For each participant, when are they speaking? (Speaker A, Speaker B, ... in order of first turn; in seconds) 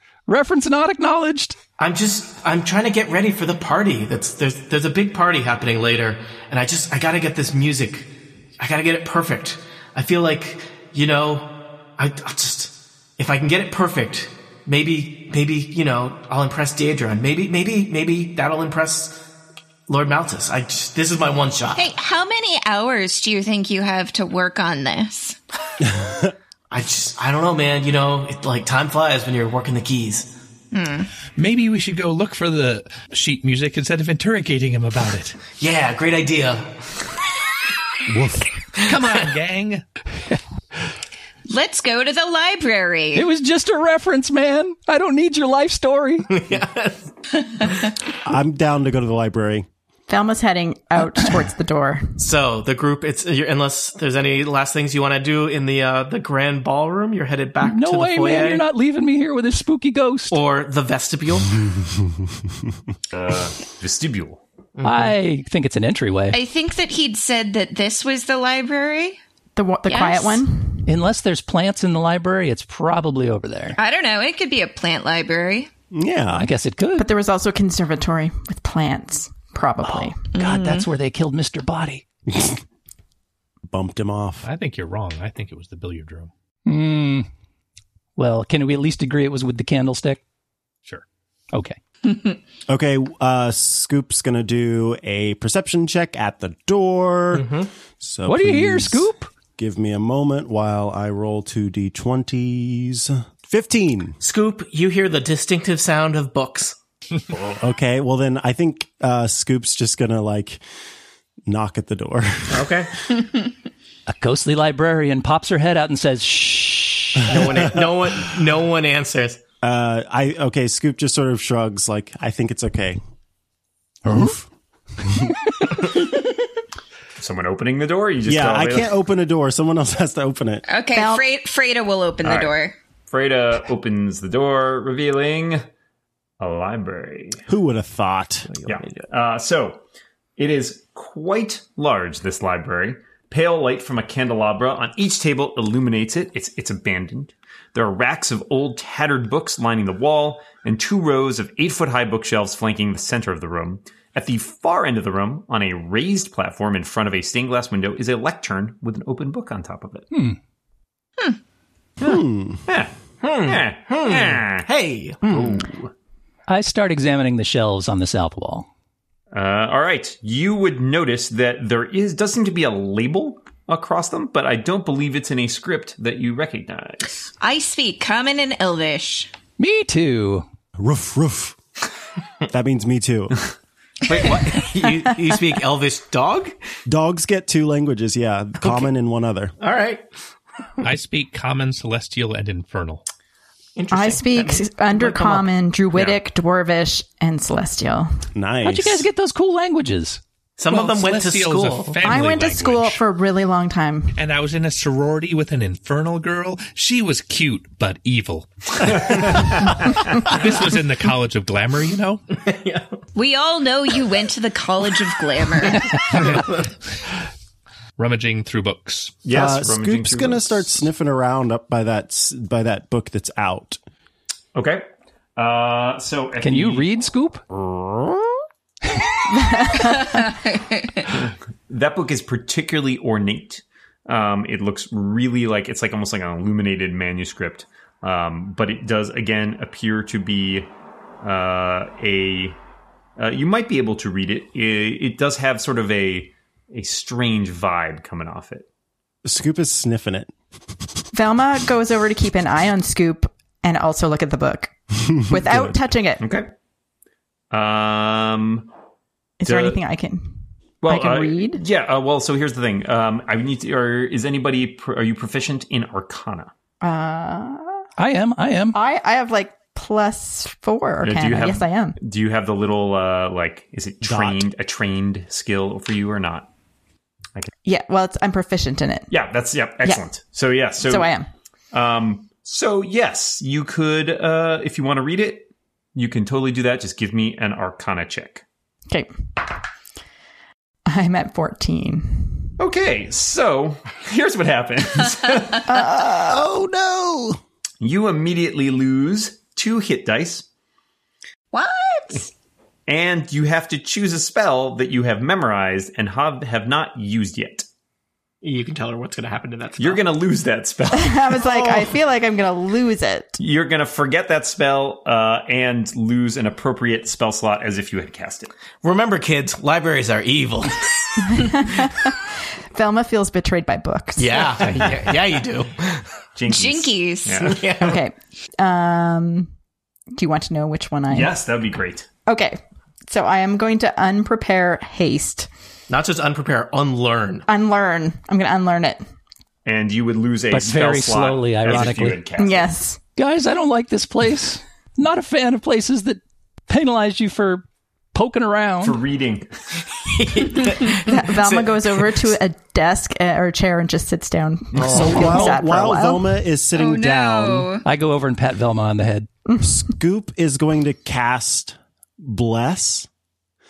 Speaker A: 0.3-1.6, 43.1-46.4, 57.6-60.4, 64.8-66.4, 70.9-73.8, 76.3-77.1, 79.8-82.0, 86.7-87.3, 88.2-90.2, 91.5-91.8, 98.3-99.3, 114.1-117.4, 124.1-124.4, 160.1-160.4, 166.5-168.7, 179.6-180.4, 198.7-200.2, 226.4-227.4, 268.0-268.8, 340.5-342.2, 343.2-349.0, 357.8-359.3
Speaker B: 1.8-19.2, 19.9-21.9, 26.7-30.3, 35.6-36.7, 46.3-47.1, 52.2-58.7, 60.3-61.6, 64.8-65.1, 97.3-97.7, 104.2-106.8, 112.5-112.9, 117.2-119.4, 138.5-139.1, 163.2-165.7, 184.1-186.5, 189.6-190.1, 193.8-195.5, 200.6-202.0, 212.4-212.9, 308.4-310.1, 318.8-321.4, 324.2-326.1, 327.4-328.0, 335.9-337.5, 350.0-352.3
Speaker C: 21.8-25.4, 30.7-31.1, 41.5-43.3, 47.5-47.9, 66.3-69.2, 69.9-70.4, 73.8-75.7, 80.3-80.9, 130.7-132.8, 177.4-179.3, 213.1-216.2, 230.1-231.1, 301.5-302.3, 326.5-327.5, 356.7-357.9
Speaker D: 25.8-26.3, 38.1-38.5, 48.2-49.7, 75.9-76.5, 82.3-82.6, 83.7-84.5, 92.7-97.5, 98.0-104.2, 107.6-110.6, 111.5-112.8, 117.3-117.7, 119.6-123.0, 124.1-124.4, 128.2-130.7, 137.5-138.5, 162.0-162.6, 180.8-181.6, 182.5-183.4, 186.9-189.5, 198.3-199.1, 219.3-223.8, 249.2-250.3, 255.3-255.6, 274.0-274.5, 296.0-297.4, 354.8-357.7, 359.6-363.1
Speaker E: 31.4-35.4, 38.8-39.8, 84.4-86.3, 190.8-193.0, 200.7-203.0, 204.2-212.3, 218.0-219.2
Speaker F: 50.1-52.2, 69.6-70.9, 77.0-80.2, 130.9-131.2, 193.9-198.1, 202.0-204.2, 229.3-230.1, 251.1-256.2, 259.4-260.3, 260.9-261.6, 266.8-267.8, 268.7-272.0, 277.6-279.1, 280.8-281.3, 290.9-292.5, 295.7-296.4, 310.9-313.4, 321.3-322.2, 322.7-325.0, 327.8-329.5, 330.2-331.3, 332.3-335.5, 337.5-339.0, 342.4-343.0, 351.0-356.4, 359.5-359.8
Speaker G: 63.1-64.4, 127.2-128.9, 132.2-132.5, 133.1-135.7, 136.4-137.4, 138.7-139.8, 140.4-160.1, 162.0-164.7, 165.2-165.8, 169.3-177.3, 208.9-209.9, 219.2-220.8, 224.5-226.9, 227.5-228.3, 231.1-240.7, 241.2-242.6, 243.2-248.7, 256.2-256.5, 257.5-258.7, 259.5-259.8, 260.8-266.5, 271.0-276.5, 279.1-281.1, 281.7-288.4, 292.6-295.6, 297.8-300.5, 302.9-307.7, 309.8-311.8, 313.4-318.5, 326.4-327.7, 331.1-332.1, 339.6-342.7, 348.8-349.5